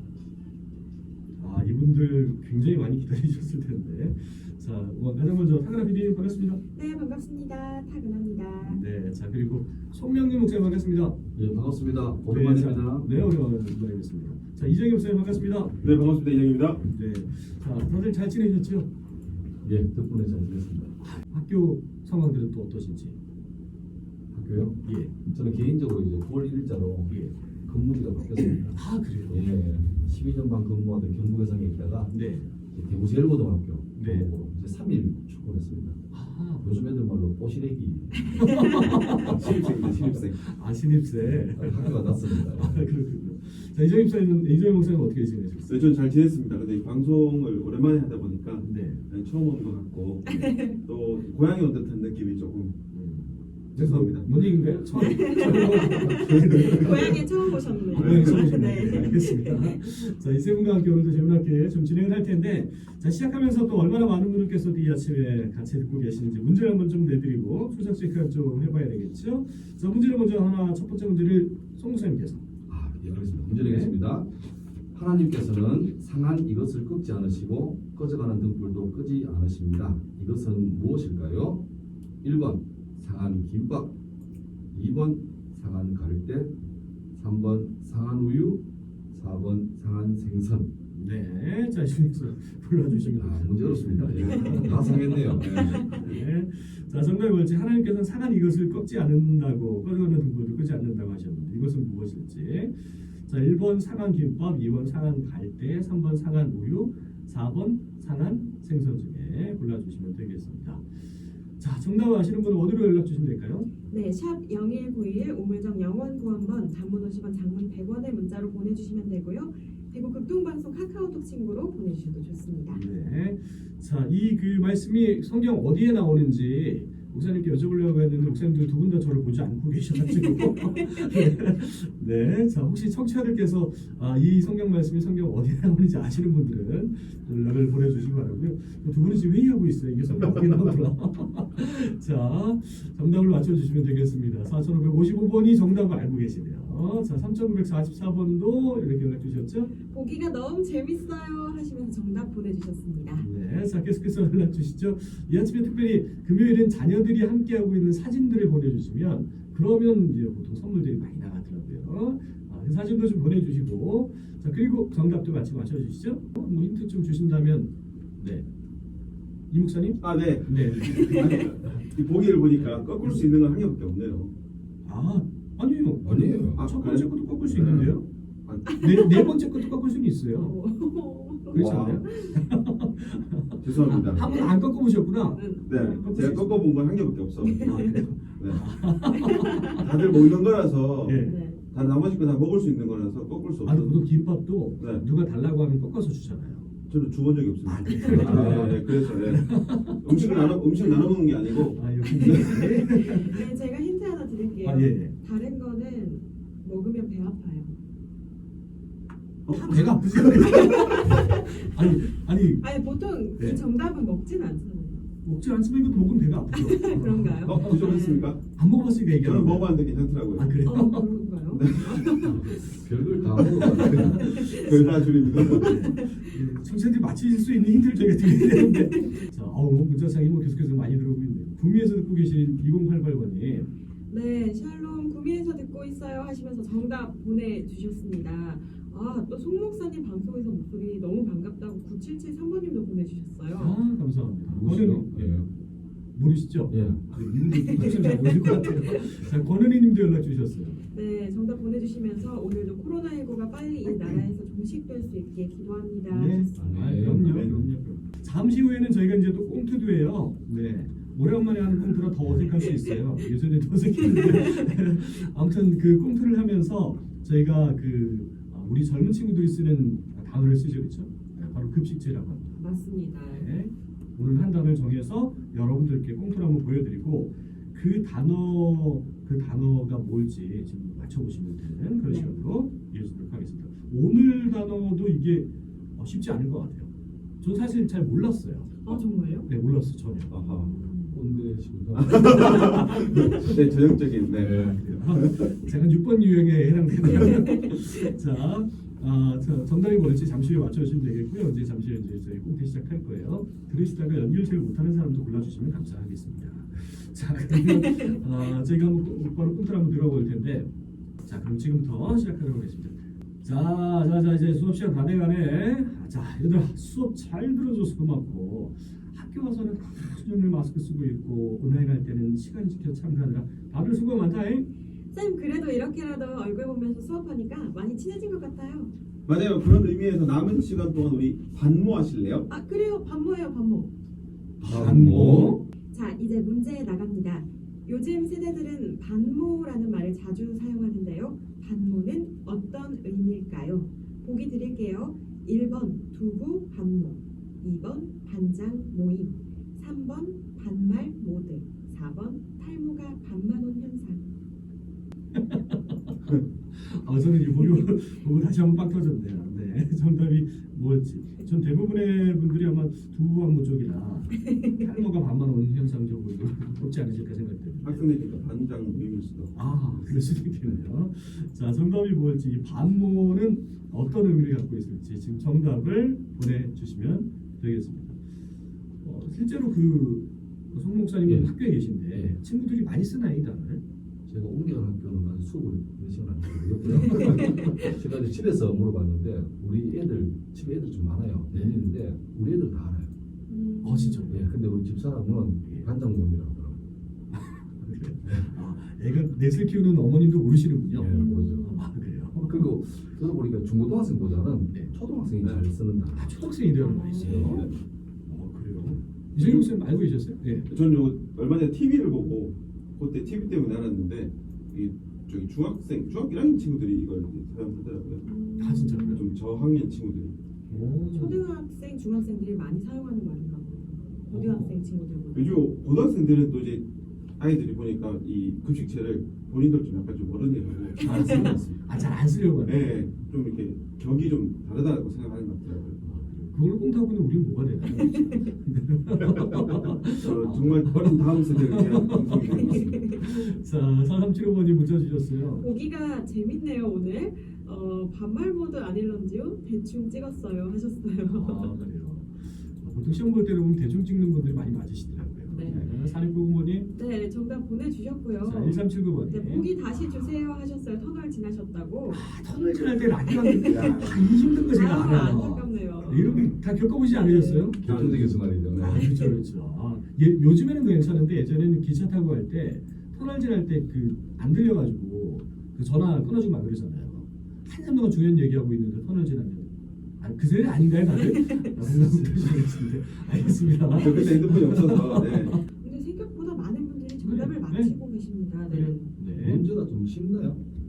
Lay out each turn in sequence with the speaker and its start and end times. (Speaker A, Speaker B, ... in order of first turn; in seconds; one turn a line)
Speaker A: 1.4-6.6
Speaker B: 6.7-8.8
Speaker A: 8.6-11.2
Speaker C: 11.3-13.1
Speaker A: 12.3-15.8
Speaker D: 15.8-16.8
Speaker A: 16.9-18.9
Speaker C: 19.6-21.0
Speaker A: 21.0-23.2
Speaker C: 24.3-32.1
Speaker A: 24.8-25.1
Speaker A: 27.1-27.4
Speaker A: 28.7-29.5
Speaker A: 32.1-32.5
Speaker C: 32.7-36.0
Speaker A: 34.0-34.3
Speaker A: 36.1-36.6
Speaker C: 36.6-38.5
Speaker A: 38.4-45.8
Speaker D: 39.2-40.4
Speaker C: 41.5-42.9
Speaker D: 45.7-52.7
Speaker A: 48.6-49.0
Speaker B: 50.2-50.8
Speaker A: 52.9-57.3
Speaker D: 53.7-54.5
Speaker B: 54.9-59.9
Speaker D: 56.4-57.2
Speaker D: 57.8-58.5
Speaker A: 57.9-72.4
Speaker C: 72.7-74.3
Speaker A: 73.6-74.0
Speaker C: 74.9-81.7
Speaker C: 82.2-84.0
Speaker C: 84.7-86.5
Speaker C: 87.1-90.7
Speaker A: 90.9-110.9
Speaker C: 93.2-95.7
Speaker D: 94.1-96.0
Speaker A: 111.6-113.7
Speaker B: 113.9-122.8
Speaker A: 122.7-149.7
Speaker B: 130.3-131.2
Speaker B: 149.9-153.3
Speaker A: 153.2-168.5
Speaker A: 169.5-171.8
Speaker D: 170.0-174.3
Speaker B: 171.0-171.3
Speaker A: 172.6-173.2
Speaker A: 174.8-178.1
Speaker C: 176.0-176.6
Speaker D: 176.5-178.8
Speaker B: 178.7-179.3
Speaker A: 178.8-180.6
Speaker B: 180.4-182.4
Speaker A: 181.5-186.7
Speaker D: 181.5-182.0
Speaker D: 183.6-184.3
Speaker B: 184.2-184.6
Speaker B: 185.3-186.5
Speaker D: 185.7-188.7
Speaker B: 187.4-188.1
Speaker A: 187.6-189.8
Speaker B: 189.1-190.1
Speaker D: 189.7-194.0
Speaker A: 191.0-191.4
Speaker B: 191.2-191.6
Speaker A: 193.6-196.7
Speaker D: 194.8-195.0
Speaker D: 196.9-199.5
Speaker A: 197.7-200.1
Speaker C: 198.2-198.8
Speaker D: 200.0-202.6
Speaker B: 200.1-201.2
Speaker A: 201.7-203.5
Speaker B: 202.1-207.7
Speaker A: 204.6-205.2
Speaker D: 209.5-210.4
Speaker A: 209.5-212.7
Speaker B: 210.3-211.7
Speaker B: 212.6-215.0
Speaker A: 215.2-217.9
Speaker B: 216.5-218.4
Speaker D: 217.4-218.4
Speaker A: 218.5-219.8
Speaker D: 219.2-220.6
Speaker A: 220.3-221.1
Speaker B: 220.6-224.9
Speaker D: 221.5-222.4
Speaker C: 222.2-224.4
Speaker A: 223.4-233.7
Speaker D: 224.5-225.7
Speaker B: 225.4-226.2
Speaker B: 234.1-243.8
Speaker A: 243.5-245.5
Speaker C: 244.5-245.5
Speaker A: 246.1-250.9
Speaker C: 246.7-247.1
Speaker B: 247.4-249.0
Speaker B: 250.9-256.8
Speaker A: 256.1-272.6
Speaker C: 256.6-257.6
Speaker D: 257.2-257.7
Speaker B: 264.0-264.7
Speaker B: 272.6-273.4
Speaker A: 273.3-286.9
Speaker B: 282.1-282.4
Speaker A: 287.4-290.3
Speaker B: 288.9-289.5
Speaker D: 290.3-290.7
Speaker B: 290.4-291.2
Speaker C: 291.1-292.5
Speaker D: 291.9-295.5
Speaker A: 292.3-293.6
Speaker A: 294.3-310.7
Speaker C: 294.3-294.8
Speaker B: 297.0-298.0
Speaker A: 311.2-324.7
Speaker B: 325.1-328.9
Speaker D: 329.3-332.5
Speaker B: 332.5-333.9
Speaker C: 334.6-335.6
Speaker A: 334.6-335.6
Speaker B: 335.9-354.3
Speaker A: 355.3-356.0
Speaker A: 356.7-368.1
Speaker B: 364.5-364.8
Speaker D: 367.8-370.7
Speaker A: 369.6-378.2
Speaker A: 379.0-383.8
Speaker C: 381.3-381.5
Speaker C: 384.3-393.1
Speaker A: 391.5-391.8
Speaker B: 393.5-394.3
Speaker A: 393.8-394.5
Speaker C: 394.3-396.8
Speaker A: 395.6-395.9
Speaker A: 397.3-402.7
Speaker C: 400.9-401.8
Speaker B: 401.0-401.9
Speaker C: 402.4-406.5
Speaker A: 406.2-407.6
Speaker B: 406.8-407.6
Speaker C: 407.2-407.6
Speaker D: 407.2-407.8
Speaker A: 408.3-410.7
Speaker D: 409.4-409.7
Speaker D: 410.7-418.3
Speaker B: 418.2-419.2
Speaker A: 418.6-419.3
Speaker D: 419.1-420.4
Speaker A: 420.7-421.4
Speaker B: 421.1-425.6
Speaker A: 424.3-424.8
Speaker D: 425.3-426.9
Speaker D: 427.4-431.6
Speaker A: 431.0-433.0
Speaker B: 431.1-431.6
Speaker D: 432.6-436.0
Speaker A: 436.0-445.7
Speaker D: 439.3-443.2
Speaker B: 442.5-443.3
Speaker B: 445.6-451.8
Speaker A: 451.3-456.9
Speaker B: 455.5-455.9
Speaker B: 456.9-462.3
Speaker A: 458.4-459.7
Speaker A: 462.1-468.1
Speaker B: 463.3-463.9
Speaker D: 463.7-464.2
Speaker B: 464.7-466.5
Speaker B: 467.1-467.9
Speaker D: 467.8-468.3
Speaker C: 467.8-469.0
Speaker A: 468.7-485.6
Speaker B: 468.9-469.4
Speaker D: 483.9-485.6
Speaker B: 485.7-489.1
Speaker A: 487.2-487.9
Speaker A: 488.7-489.7
Speaker C: 489.3-490.6